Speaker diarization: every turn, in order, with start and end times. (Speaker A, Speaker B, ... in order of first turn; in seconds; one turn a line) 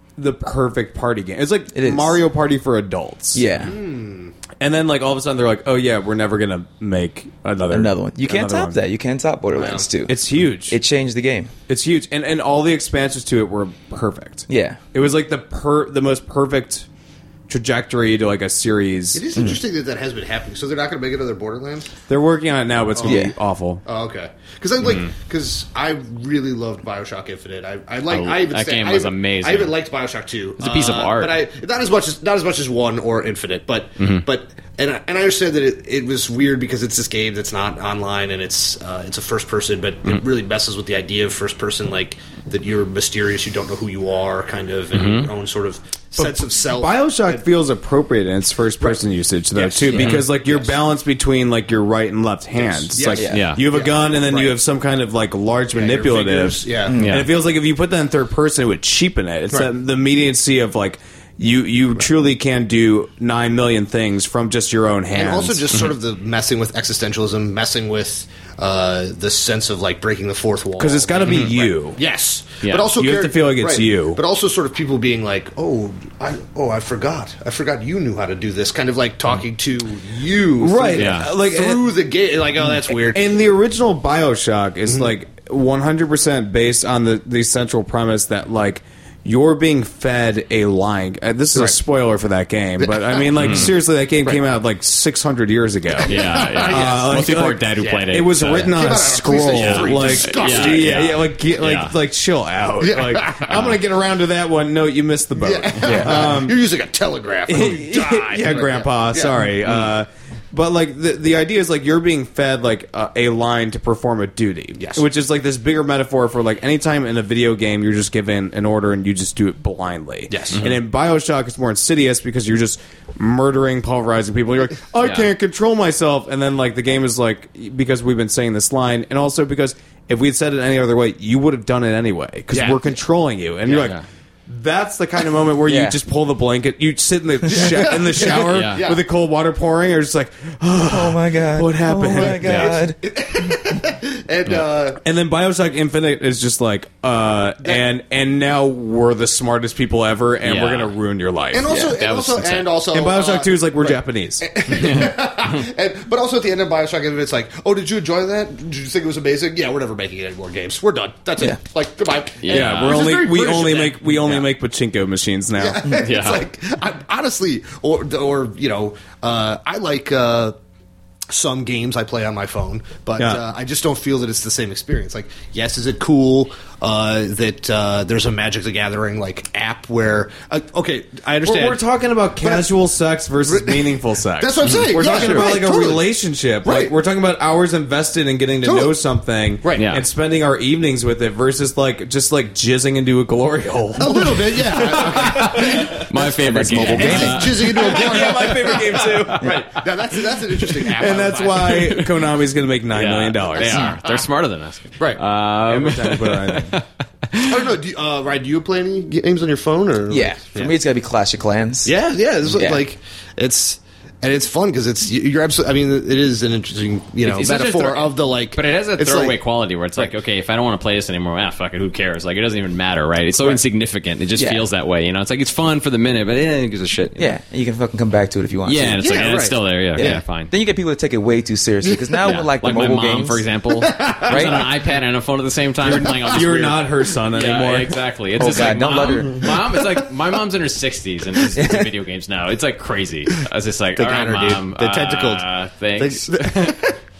Speaker A: 0.2-3.5
Speaker B: 1.7-2.2
Speaker B: 3.3-3.7
Speaker C: 3.6-4.3
Speaker A: 4.6-8.8
Speaker B: 7.7-11.5
Speaker C: 9.5-9.9
Speaker A: 10.1-10.8
Speaker A: 11.7-16.9
Speaker B: 14.5-14.8
Speaker A: 17.5-19.3
Speaker C: 19.1-21.9
Speaker A: 22.1-23.8
Speaker C: 22.9-23.2
Speaker B: 23.0-23.3
Speaker C: 23.8-47.5
Speaker D: 24.8-25.1
Speaker D: 28.1-29.8
Speaker D: 30.6-31.4
Speaker D: 44.9-45.3
Speaker A: 46.2-65.7
Speaker C: 49.5-50.7
Speaker D: 49.9-50.2
Speaker C: 52.5-54.6
Speaker B: 53.1-53.5
Speaker D: 53.3-53.6
Speaker C: 55.7-56.9
Speaker B: 56.9-57.3
Speaker D: 56.9-57.3
Speaker C: 65.1-83.4
Speaker A: 70.8-72.0
Speaker D: 72.6-72.9
Speaker A: 72.9-74.2
Speaker A: 80.6-81.9
Speaker D: 81.0-81.3
Speaker A: 83.0-106.6
Speaker C: 92.8-93.7
Speaker D: 93.3-93.7
Speaker D: 96.0-99.0
Speaker C: 96.0-101.2
Speaker D: 99.6-101.9
Speaker C: 102.8-103.7
Speaker D: 103.4-103.8
Speaker C: 105.4-109.5
Speaker B: 105.8-106.3
Speaker A: 107.5-142.8
Speaker C: 114.8-115.0
Speaker C: 120.3-120.6
Speaker D: 120.5-120.8
Speaker D: 125.0-125.3
Speaker C: 132.5-132.8
Speaker D: 133.7-134.0
Speaker B: 135.7-136.0
Speaker C: 137.5-139.0
Speaker D: 138.2-138.9
Speaker B: 140.8-143.7
Speaker D: 142.4-142.8
Speaker C: 143.0-145.0
Speaker A: 145.0-151.7
Speaker D: 150.4-150.9
Speaker C: 151.5-164.0
Speaker B: 151.7-151.9
Speaker D: 151.9-152.7
Speaker A: 152.9-154.4
Speaker D: 154.7-155.6
Speaker D: 162.4-163.2
Speaker A: 162.5-165.9
Speaker D: 164.2-164.5
Speaker C: 165.6-170.5
Speaker D: 165.9-166.4
Speaker C: 171.3-181.8
Speaker A: 173.2-173.4
Speaker A: 181.4-196.0
Speaker C: 182.4-182.7
Speaker C: 183.4-186.0
Speaker B: 185.0-185.6
Speaker C: 186.6-186.9
Speaker C: 188.6-189.0
Speaker C: 189.6-189.9
Speaker D: 189.8-190.1
Speaker C: 194.0-196.1
Speaker D: 195.1-199.6
Speaker B: 196.4-197.7
Speaker A: 196.8-199.6
Speaker C: 196.8-202.0
Speaker B: 198.9-199.6
Speaker A: 200.7-203.9
Speaker D: 201.7-202.3
Speaker D: 202.9-207.7
Speaker C: 203.6-204.3
Speaker A: 205.7-206.8
Speaker C: 207.4-210.7
Speaker B: 210.1-211.9
Speaker C: 211.8-219.4
Speaker B: 212.5-212.9
Speaker D: 217.2-227.3
Speaker B: 224.3-224.7
Speaker B: 227.2-233.4
Speaker D: 228.6-230.5
Speaker C: 229.0-230.2
Speaker C: 231.8-232.4
Speaker D: 232.2-246.8
Speaker C: 233.8-234.7
Speaker B: 234.3-234.7
Speaker A: 235.8-238.0
Speaker B: 238.4-239.7
Speaker B: 241.5-241.9
Speaker C: 243.9-246.9